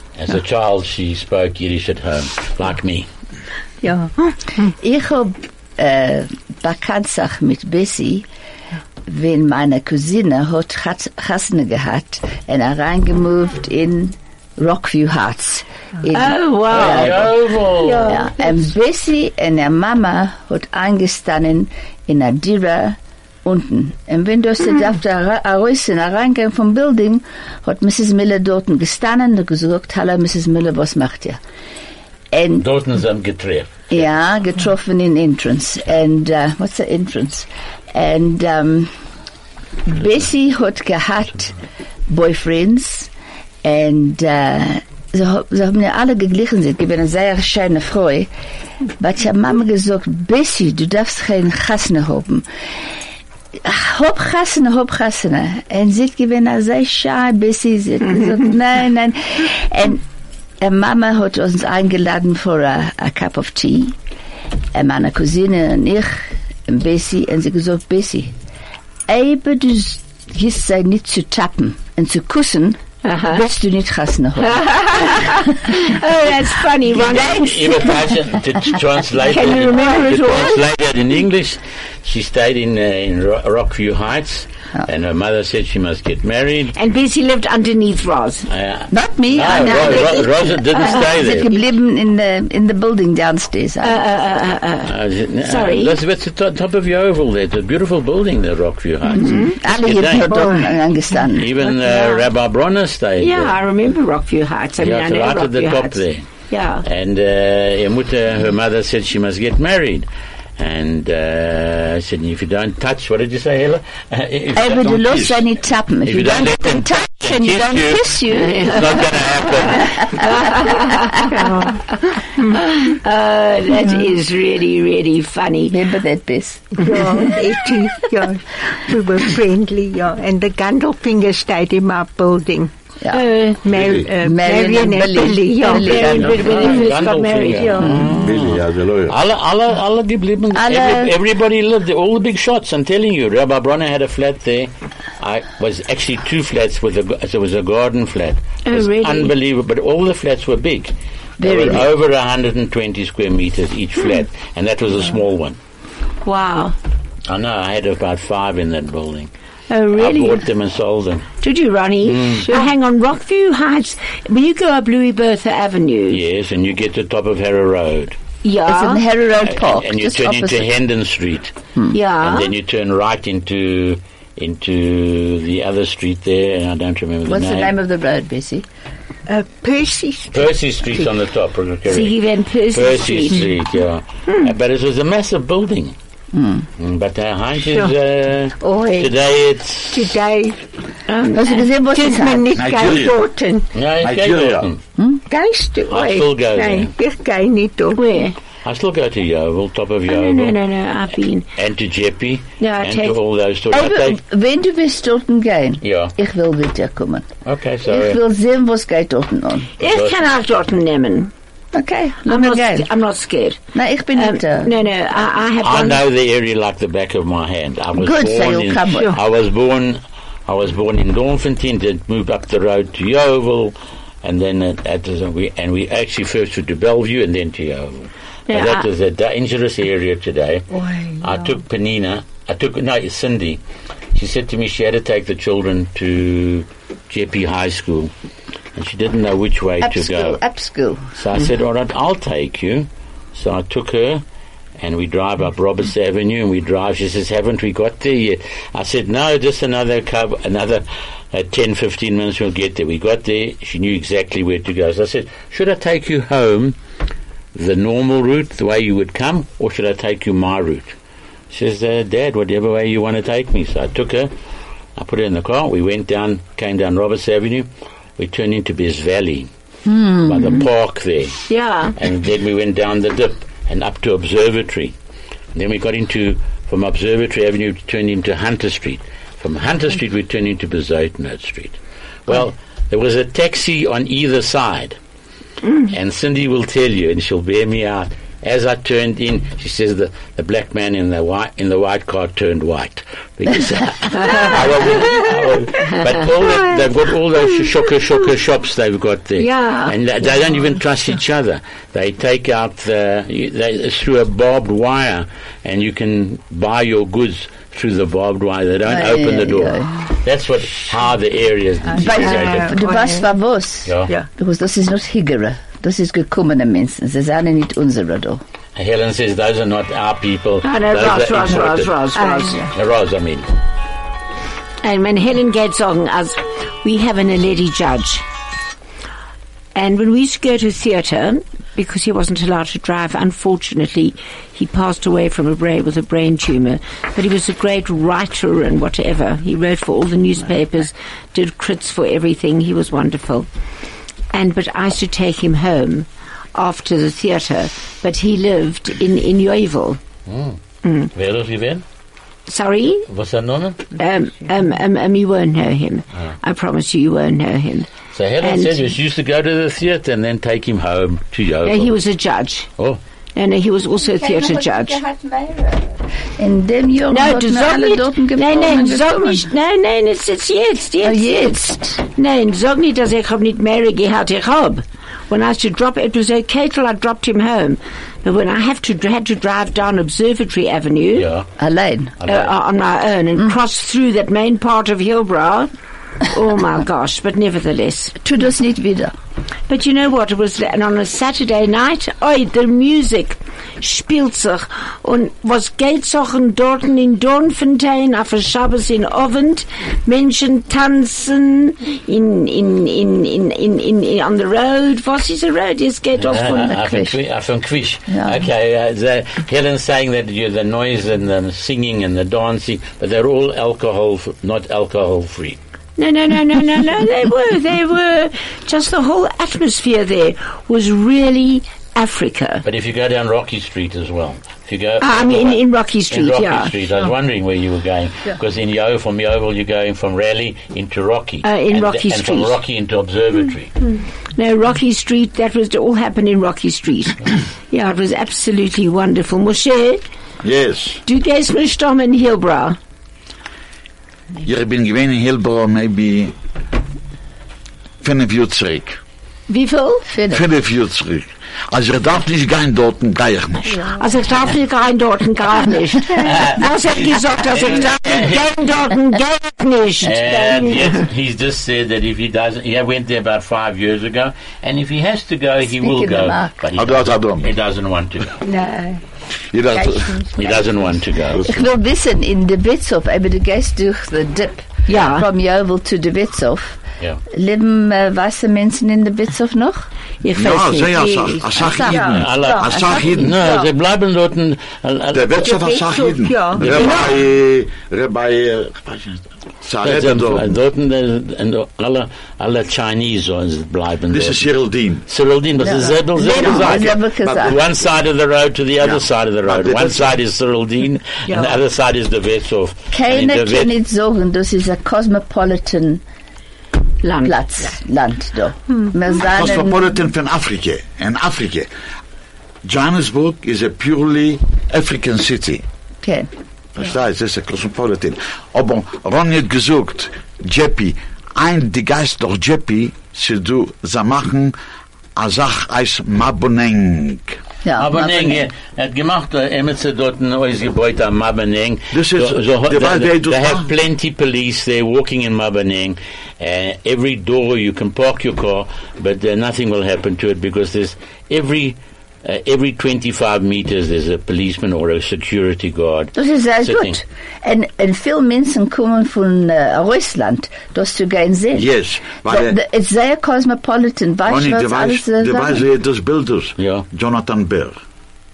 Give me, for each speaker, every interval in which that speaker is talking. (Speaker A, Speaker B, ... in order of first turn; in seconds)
Speaker A: 0.2-3.1, 16.7-18.2, 32.6-34.1, 77.0-86.7, 88.5-91.5, 94.9-100.5, 101.3-103.6, 104.8-106.3, 106.8-115.3, 116.1-120.2, 136.1-155.6, 157.3-159.3, 159.9-161.3, 162.1-162.5, 166.1-168.2, 169.4-171.5, 172.2-177.8, 180.3-182.2, 182.7-185.9, 186.8-190.1, 193.7-194.8, 195.9-196.9, 198.6-200.6, 201.6-204.2, 205.8-206.1, 207.5-208.2, 209.8-210.2, 215.6-233.6, 234.1-238.1, 238.8-240.4, 241.2-244.2, 244.8-256.8, 257.6-260.9, 261.5-264.3, 265.0-267.7, 268.2-269.5, 270.2-271.4, 272.0-274.9, 275.6-285.0, 285.9-312.8, 313.9-314.1, 318.8-322.0, 322.7-323.5, 350.3-350.6, 351.1-351.8, 353.1-353.8, 358.1-362.0, 381.1-381.5, 382.2-382.5, 406.2-415.6, 422.6-433.7, 456.2-458.5, 460.0-468.4, 470.4-471.4, 482.1-485.3, 486.6-486.8, 489.8-494.5, 495.1-503.7, 527.8-547.0, 556.6-556.9
Speaker B: 3.8-4.7, 121.3-122.5, 126.8-132.7, 133.6-136.9, 137.5-138.1, 179.3-180.5, 187.7-187.9, 188.6-189.2, 189.9-190.6, 191.8-193.7, 195.3-198.1, 230.8-231.2, 311.9-313.3, 322.2-322.7, 468.4-469.0, 469.7-471.1, 480.9-483.7, 485.4-487.1, 501.3-501.6
Speaker C: 4.8-8.3, 9.1-17.4, 18.0-31.4, 32.3-32.7, 33.9-38.9, 39.9-41.5, 42.1-43.1, 43.6-48.3, 49.0-52.5, 53.6-60.0, 60.6-64.0, 64.7-68.3, 69.1-72.8, 73.3-75.1, 88.9-94.0, 99.1-101.5, 114.5-119.0, 125.7-127.1, 134.2-136.7, 137.8-138.2, 140.5-141.2, 151.4-151.9, 168.7-170.7, 177.3-178.7, 186.3-186.7, 191.3-192.6, 203.7-207.3, 207.9-209.7, 211.7-212.9, 213.7-214.7, 218.0-219.2, 239.8-241.0, 269.9-270.6, 308.9-310.1, 312.0-318.4, 364.0-369.5, 371.0-372.0, 381.6-382.1, 388.2-389.1, 406.8-407.1, 408.1-408.4, 450.1-450.4, 465.7-466.6, 471.4-476.8, 477.3-479.9, 481.6-482.1, 495.6-497.6, 502.9-506.0, 507.2-509.8, 516.0-516.3, 527.6-528.4, 546.1-551.7, 552.2-555.6
Speaker D: 16.1-18.4, 73.0-73.4, 74.5-77.9, 79.3-80.6, 86.8-88.5, 89.5-90.0, 93.8-96.0, 99.2-99.5, 101.6-102.2, 103.2-106.8, 118.4-118.8, 120.0-121.4, 122.6-125.8, 133.1-133.7, 135.6-137.9, 148.7-149.3, 156.2-156.8, 159.7-160.4, 161.4-166.2, 168.4-169.0, 171.9-172.5, 181.9-183.4, 191.1-191.7, 197.9-198.4, 200.1-201.5, 202.6-203.2, 209.8-211.3, 212.3-213.6, 214.2-216.0, 228.5-228.9, 271.5-271.9, 299.4-299.9, 320.6-322.6, 324.8-328.2, 329.8-343.5, 344.3-350.0, 350.8-351.1, 352.5-353.1, 354.0-357.9, 358.4-358.8, 361.6-362.7, 363.4-365.0, 367.1-381.3, 382.3-385.7, 386.2-388.1, 389.7-407.0, 416.0-422.6, 425.0-426.7, 431.4-432.6, 434.4-440.0, 441.1-442.8, 449.5-450.1, 454.0-461.0, 474.9-475.3, 480.2-481.1, 507.0-507.4
Speaker E: 114.9-115.4, 133.7-134.1, 138.2-139.2, 192.6-193.2, 194.0-194.7, 440.4-441.0, 444.4-446.4, 448.0-449.0, 450.3-453.9, 466.8-467.5, 469.5-470.3, 480.3-483.5, 485.1-490.6, 494.1-495.1, 498.8-500.2, 509.2-511.7, 512.6-515.6, 516.8-524.5, 525.2-527.4, 531.9-533.7, 551.6-552.6, 554.2-557.8